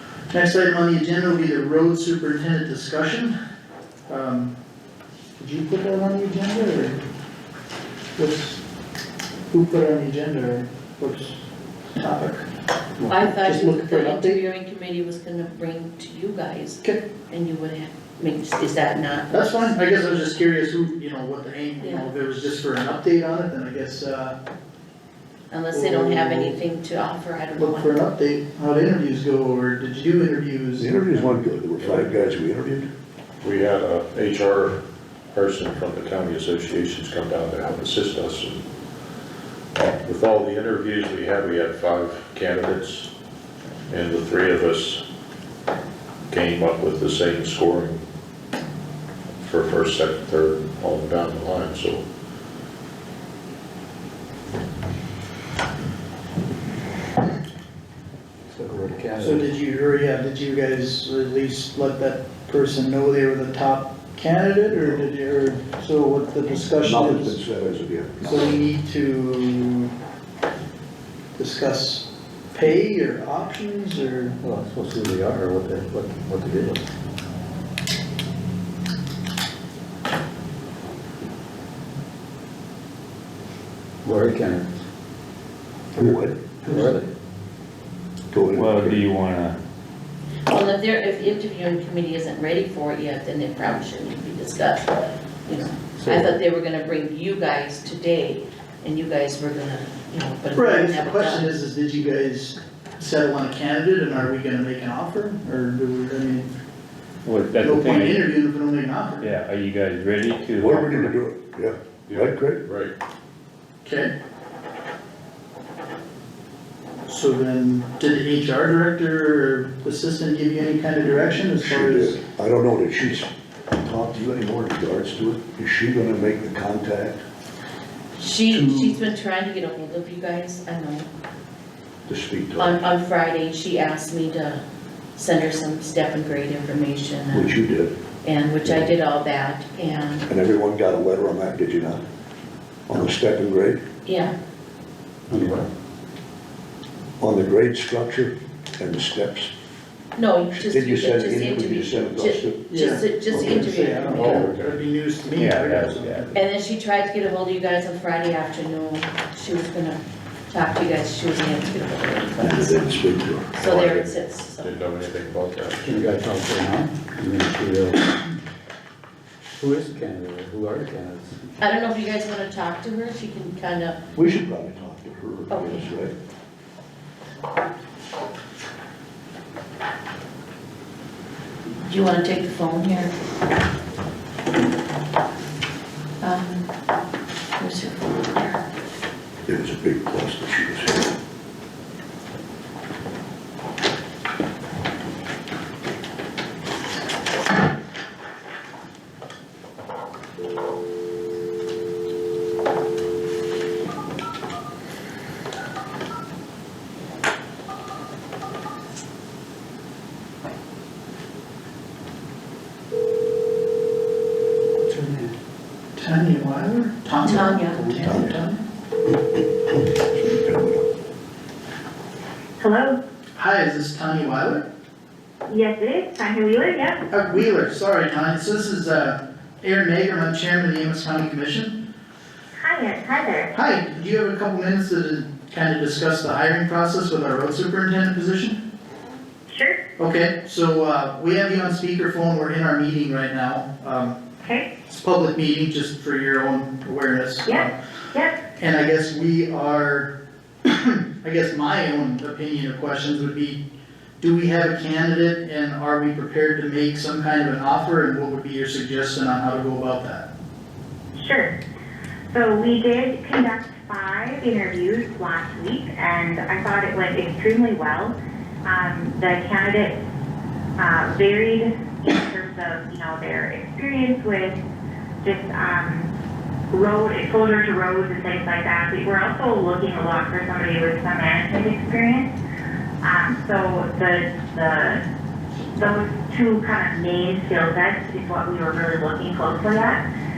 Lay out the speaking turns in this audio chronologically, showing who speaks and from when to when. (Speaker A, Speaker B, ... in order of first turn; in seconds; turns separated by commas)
Speaker A: 0.3-3.3, Speaker A: 4.1-4.5, Speaker A: 5.4-7.0, Speaker A: 8.2-8.6, Speaker A: 9.5-12.4, Speaker B: 13.1-19.7, Speaker A: 13.1-14.4, Speaker A: 19.3-24.4, Speaker B: 21.8-22.1, Speaker B: 25.5-28.0, Speaker A: 25.7-26.6, Speaker A: 27.6-31.3, Speaker C: 30.8-32.9, Speaker D: 31.8-32.1, Speaker D: 33.4-34.8, Speaker D: 35.3-38.6, Speaker D: 39.8-43.1, Speaker D: 43.9-45.0, Speaker D: 46.3-48.0, Speaker D: 49.4-52.0, Speaker E: 58.5-59.5, Speaker A: 59.2-67.4, Speaker C: 66.8-68.6, Speaker A: 68.2-69.9, Speaker A: 71.3-74.4, Speaker E: 74.4-76.8, Speaker E: 84.0-84.8, Speaker C: 85.9-86.7, Speaker E: 86.0-87.1, Speaker C: 88.3-89.0, Speaker F: 88.5-89.6, Speaker B: 90.5-94.9, Speaker B: 95.4-101.5, Speaker E: 96.0-96.3, Speaker A: 100.5-106.5, Speaker F: 107.2-108.3, Speaker A: 107.6-109.3, Speaker F: 109.2-111.2, Speaker C: 110.6-112.6, Speaker D: 112.1-112.9, Speaker A: 113.8-114.1, Speaker A: 117.0-122.2, Speaker C: 121.5-127.2, Speaker B: 128.2-131.1, Speaker C: 128.5-129.0, Speaker C: 132.1-132.8, Speaker B: 132.6-134.6, Speaker B: 135.2-137.6, Speaker C: 137.3-137.9, Speaker B: 138.2-140.3, Speaker C: 140.3-142.0, Speaker C: 142.9-143.8, Speaker B: 144.0-144.3, Speaker E: 145.3-145.7, Speaker C: 147.2-149.5, Speaker B: 150.2-154.5, Speaker C: 150.5-152.6, Speaker A: 152.7-156.3, Speaker D: 154.2-154.8, Speaker F: 155.3-156.4, Speaker B: 156.3-164.7, Speaker C: 162.4-164.1, Speaker D: 164.6-165.8, Speaker E: 165.8-168.2, Speaker E: 169.6-171.4, Speaker B: 171.6-174.0, Speaker C: 174.2-176.1, Speaker B: 175.5-175.9, Speaker B: 181.8-183.1, Speaker B: 186.2-186.7, Speaker B: 187.6-188.6, Speaker C: 189.4-191.0, Speaker E: 214.9-215.3, Speaker A: 215.9-218.6, Speaker B: 217.2-217.8, Speaker C: 219.9-220.8, Speaker G: 222.6-223.0, Speaker A: 223.3-224.6, Speaker G: 225.5-227.0, Speaker A: 227.1-231.8, Speaker G: 232.5-233.5, Speaker A: 233.5-238.6, Speaker G: 239.5-239.8, Speaker A: 240.0-244.2, Speaker G: 244.4-244.7, Speaker A: 244.9-247.7, Speaker G: 247.4-248.4, Speaker A: 248.6-250.1, Speaker A: 250.6-253.6, Speaker A: 254.2-260.3, Speaker G: 261.1-261.5, Speaker G: 262.3-270.0, Speaker G: 270.8-274.6, Speaker G: 275.2-276.1, Speaker G: 276.7-282.3, Speaker G: 283.0-285.0, Speaker G: 285.7-290.0